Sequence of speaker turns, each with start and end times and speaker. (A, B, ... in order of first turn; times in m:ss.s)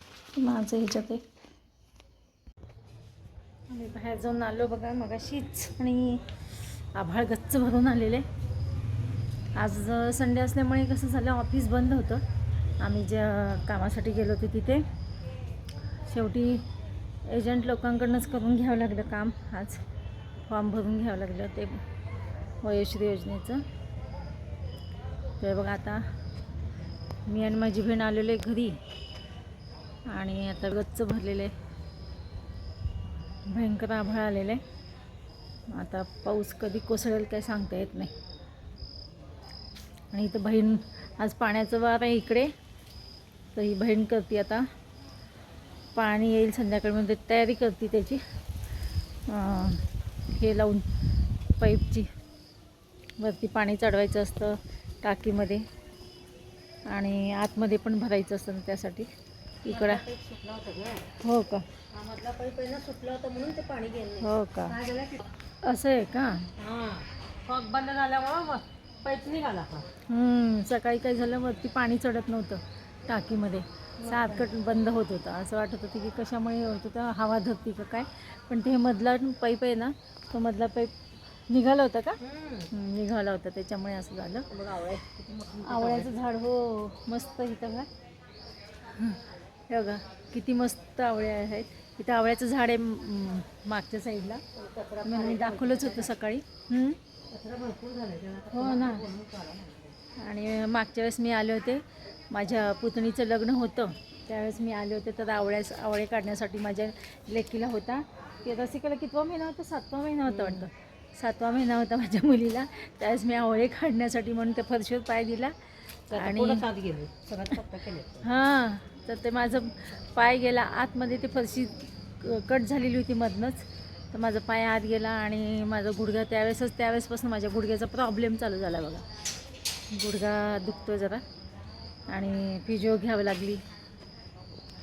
0:00.4-0:01.2 A
0:03.7-0:06.3 A
0:06.9-0:08.2 A
0:09.6-0:12.2 A
0:12.8-0:14.8 A
0:16.1-0:16.7 A
0:17.3-0:19.8 A
0:20.4-0:21.8 A
0:22.6-0:23.6 A
0:25.4-0:26.1 A
0:27.3-0:28.8 A
0:30.1-0:31.5 A
0:33.5-0:34.6 A
0:35.7-0:38.1 A
0:40.1-0:42.5 A
0:43.5-0:44.7 A
0:46.0-0:48.2 A
0:49.3-0:50.9 A
0:51.6-0:52.1 A
0:53.2-0:55.6 A
0:56.9-0:59.1 A
0:59.6-1:00.0 A
0:59.7-1:01.1 B
1:01.2-1:01.7 A
1:01.9-1:05.3 B
1:04.2-1:04.8 A
1:05.6-1:06.5 A
1:06.6-1:09.9 B
1:10.1-1:20.9 A
1:14.0-1:14.5 B
1:21.5-1:24.5 A
1:22.2-1:22.7 B
1:24.5-1:26.1 B
1:25.6-1:27.9 A
1:28.8-1:34.4 A
1:34.6-1:36.1 B
1:35.0-1:37.0 A
1:37.3-1:40.0 B
1:38.5-1:39.1 A
1:40.2-1:55.5 A
1:50.3-1:50.7 B
1:56.1-1:58.3 B
1:56.1-1:56.7 A
1:58.2-2:09.0 A
2:09.9-2:11.2 A
2:12.1-2:13.6 A